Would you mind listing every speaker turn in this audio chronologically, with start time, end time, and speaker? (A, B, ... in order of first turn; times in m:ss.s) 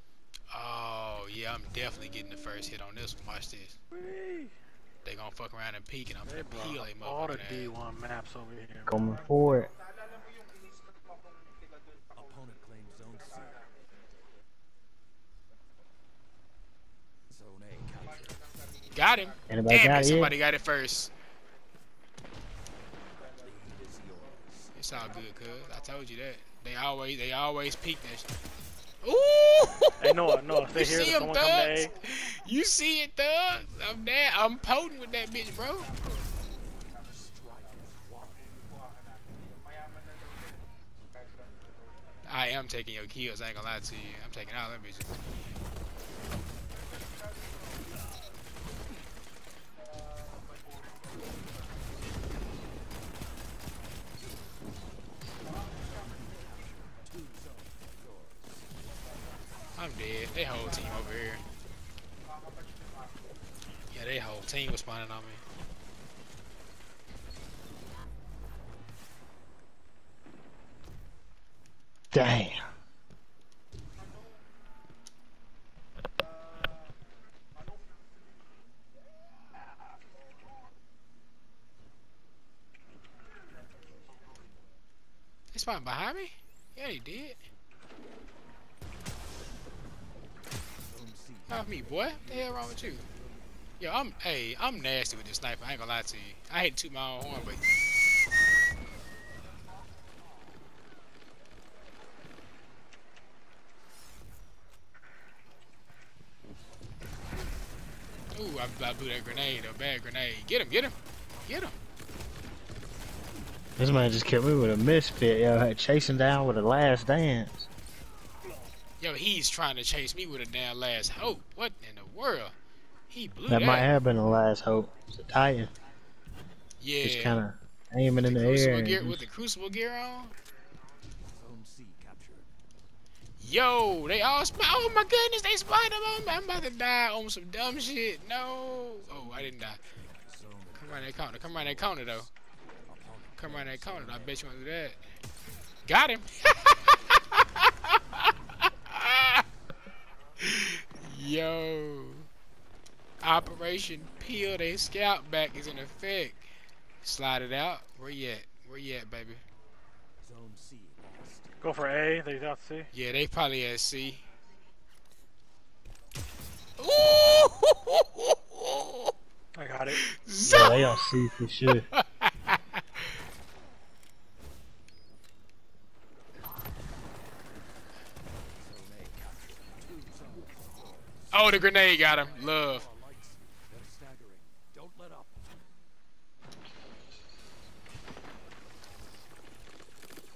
0:00.5-0:03.8 A
0:03.9-0:04.5 B
0:05.0-0:07.8 A
0:06.3-0:09.0 B
0:08.9-0:09.7 C
0:12.1-0:13.7 D
0:17.3-0:18.5 D
0:18.9-0:21.1 A
0:19.5-0:20.4 C
0:23.2-0:24.7 D
0:24.8-0:28.3 A
0:29.0-0:35.9 A
0:30.0-0:31.9 B
0:36.2-0:38.6 D
0:42.3-0:45.2 A
0:56.0-0:58.7 D
0:59.8-1:01.5 A
1:03.9-1:05.4 A
1:12.1-1:12.7 C
1:25.5-1:27.4 A
1:30.8-1:33.7 D
1:31.5-1:33.1 A
1:33.8-1:37.7 A
1:48.3-1:51.0 A
1:51.5-1:51.8 A
1:53.8-1:57.7 C
1:59.0-2:02.5 A
2:03.1-2:03.9 A
2:03.5-2:05.7 C
2:06.8-2:07.4 A
2:07.0-2:09.2 C
2:08.2-2:10.4 A
2:11.3-2:12.5 D
2:13.4-2:19.8 A
2:19.0-2:22.3 D
2:20.8-2:22.3 A
2:22.9-2:24.5 D
2:23.4-2:25.0 A
2:25.9-2:29.4 A
2:30.4-2:32.3 A
2:33.2-2:36.5 A
2:37.0-2:39.4 A
2:40.2-2:41.9 D
2:41.6-2:42.9 B
2:42.9-2:44.2 A
2:46.8-2:49.1 A
2:49.6-2:50.0 B
2:49.9-2:51.0 A
2:50.4-2:51.9 C
2:51.9-2:52.8 A
2:58.6-3:05.4 D
3:01.3-3:02.9 A